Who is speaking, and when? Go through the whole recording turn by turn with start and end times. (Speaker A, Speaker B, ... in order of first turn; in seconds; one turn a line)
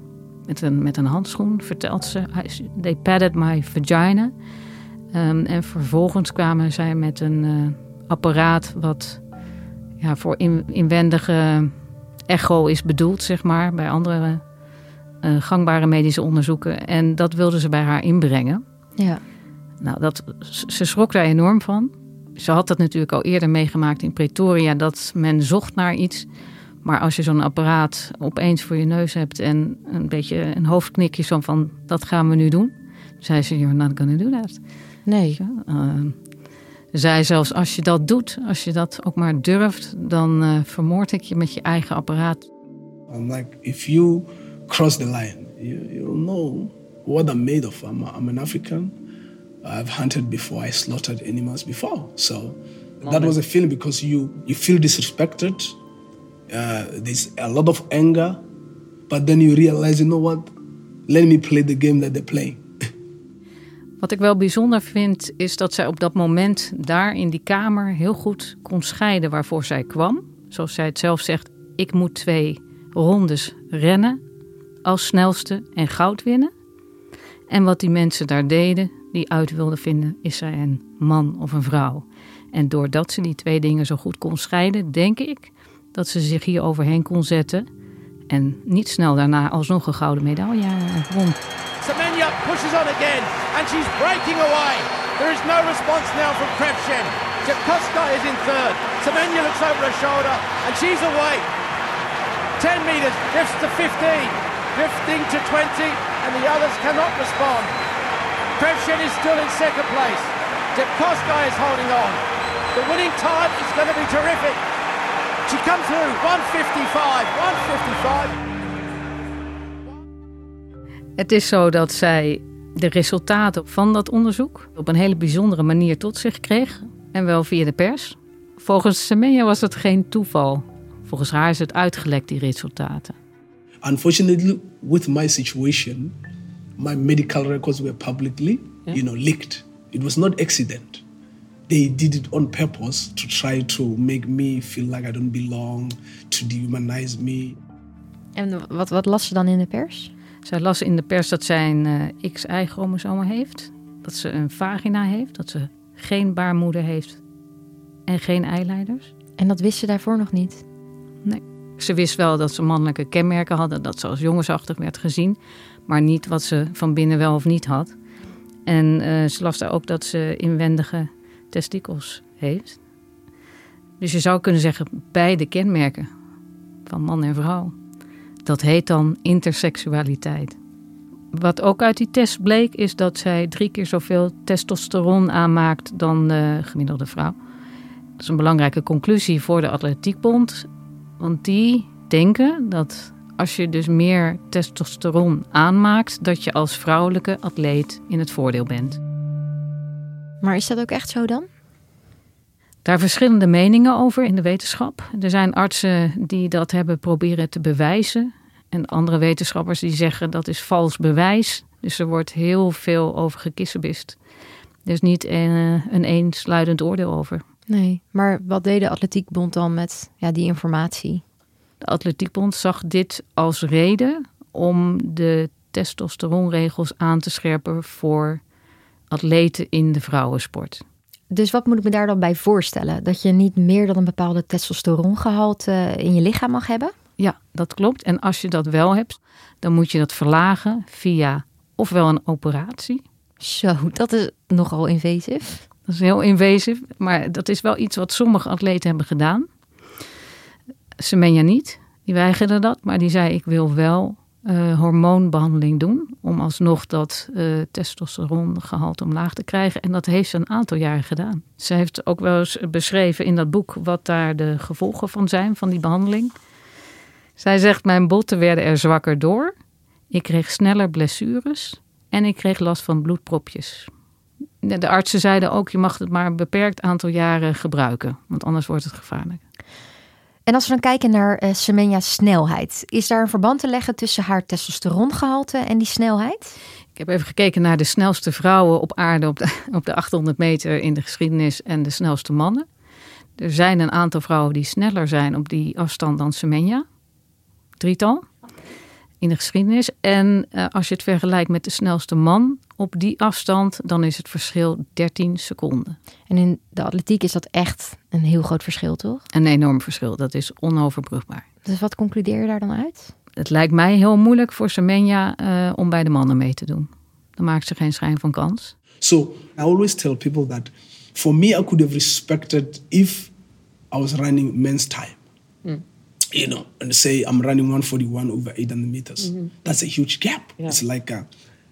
Speaker A: 0.5-4.3
Speaker A: 5.1-9.2
Speaker A: 10.0-11.7
Speaker A: 12.3-14.4
Speaker A: 15.2-18.6
Speaker A: 19.8-26.3
Speaker A: 26.8-34.6
Speaker B: 35.0-35.4
Speaker A: 35.4-36.2
Speaker A: 36.9-42.5
Speaker C: 43.1-49.0
Speaker C: 49.6-55.8
Speaker C: 56.5-58.4
Speaker C: 59.1-60.5
Speaker C: 61.1-62.6
Speaker A: 64.0-74.2
Speaker A: 74.8-76.5
Speaker A: 77.5-87.7
Speaker A: 88.3-91.4
Speaker D: 91.8-101.5
Speaker D: 102.6-107.7
Speaker D: 108.6-112.2
Speaker D: 112.7-114.6
Speaker D: 115.5-118.3
Speaker A: 121.2-133.2
Speaker C: 133.8-136.1
Speaker C: 136.8-141.0
Speaker C: 141.7-147.6
Speaker B: 148.3-150.1
Speaker A: 150.4-157.2
Speaker A: 158.1-159.1
Speaker B: 159.4-160.6
Speaker A: 161.2-167.9
Speaker A: 168.7-172.8
Speaker A: 174.0-176.1
Speaker A: 176.8-177.7
Speaker A: 178.4-180.6
Speaker A: 181.3-187.3
Speaker A: 188.2-190.7
Speaker A: 191.2-199.0
Speaker B: 200.4-201.5
Speaker A: 202.8-214.2
Speaker A: 214.8-217.4
Speaker B: 217.7-221.2
Speaker A: 221.8-228.4
Speaker A: 229.1-230.8
Speaker B: 231.3-236.9
Speaker A: 237.2-243.0
Speaker B: 243.4-245.6
Speaker A: 245.9-249.4
Speaker A: 251.0-266.3
Speaker A: 267.4-269.5
Speaker A: 270.1-273.9
Speaker A: 274.6-279.4
Speaker B: 280.5-286.6
Speaker A: 286.9-292.7
Speaker A: 293.4-296.8
Speaker A: 297.8-298.3
Speaker A: 299.2-306.0
Speaker B: 306.3-309.2
Speaker A: 309.3-311.4
Speaker B: 311.6-313.1
Speaker A: 313.4-318.7
Speaker C: 319.0-323.3
Speaker C: 323.9-325.2
Speaker C: 326.3-331.3